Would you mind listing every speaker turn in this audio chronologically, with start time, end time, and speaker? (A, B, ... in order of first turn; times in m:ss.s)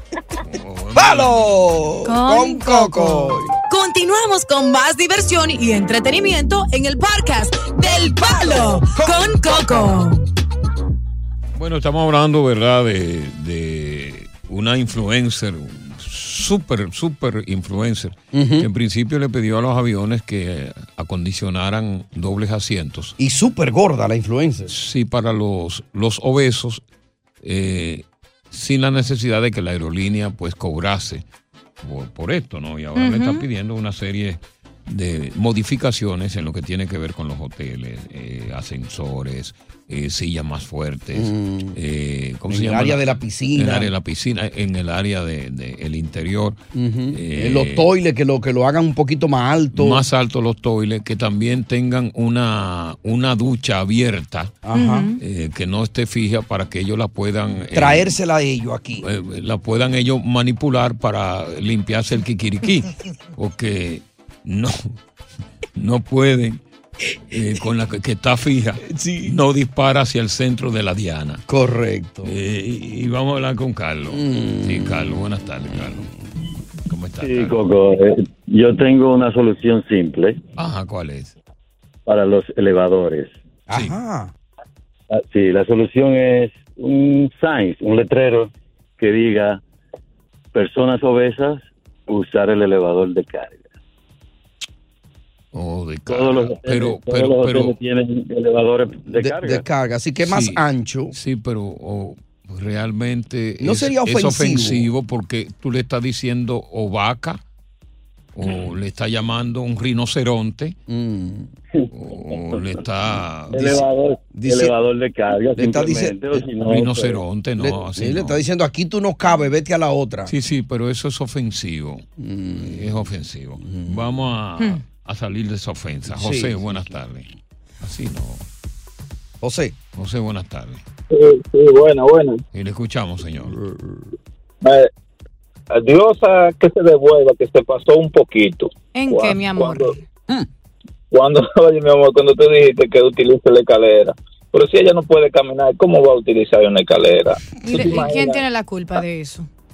0:00.3-0:01.7 A
0:00.9-0:03.5 B
0:02.1-0:02.9 C
0:02.9-0:03.4 D
0:03.7-0:10.3 C
0:08.6-0:09.9 B
0:11.5-0:23.2 A
0:18.3-0:18.7 B
0:23.2-0:24.7 B
0:24.7-0:26.8 A
0:27.4-0:31.2 A
0:31.8-0:46.6 A
0:33.0-0:33.4 D
0:41.1-0:41.8 B
0:42.5-0:43.9 B
0:46.7-0:50.0 B
0:47.1-0:47.9 A
0:49.7-0:54.6 A
0:54.6-0:55.1 B
0:54.7-0:55.2 D
0:55.2-0:58.2 A
0:57.7-0:59.1 B
0:59.0-1:04.9 A
1:05.8-1:06.6 A
1:07.3-1:11.4 A
1:08.8-1:09.4 B
1:11.5-1:12.3 B
1:12.2-1:16.1 A
1:14.1-1:15.2 B
1:16.9-1:17.6 A
1:17.2-1:20.4 E
1:20.6-1:21.3 A
1:22.0-1:23.4 E
1:23.7-1:24.3 B
1:25.1-1:29.6 E
1:30.5-1:33.6 E
1:35.5-1:37.8 A
1:36.1-1:39.6 E
1:39.1-1:41.1 B
1:40.2-1:47.4 A
1:43.6-1:44.9 B
1:48.3-1:50.8 A
1:50.9-1:51.5 B
1:51.7-1:52.8 E
1:51.9-1:53.8 A
1:53.5-1:57.2 E
1:54.3-1:54.7 B
1:55.6-1:56.4 B
1:56.6-1:58.4 A
1:57.6-2:00.3 B
2:00.3-2:02.0 A
2:02.2-2:03.0 B
2:02.6-2:07.3 A
2:03.6-2:04.1 B
2:06.1-2:06.9 B
2:07.8-2:08.4 A
2:09.4-2:09.8 B
2:09.9-2:10.8 A
2:11.1-2:12.4 F
2:12.5-2:13.6 A
2:13.5-2:14.0 B
2:14.6-2:14.9 F
2:15.7-2:19.9 F
2:18.9-2:20.0 D
2:21.1-2:28.4 F
2:27.6-2:29.5 D
2:27.7-2:28.1 A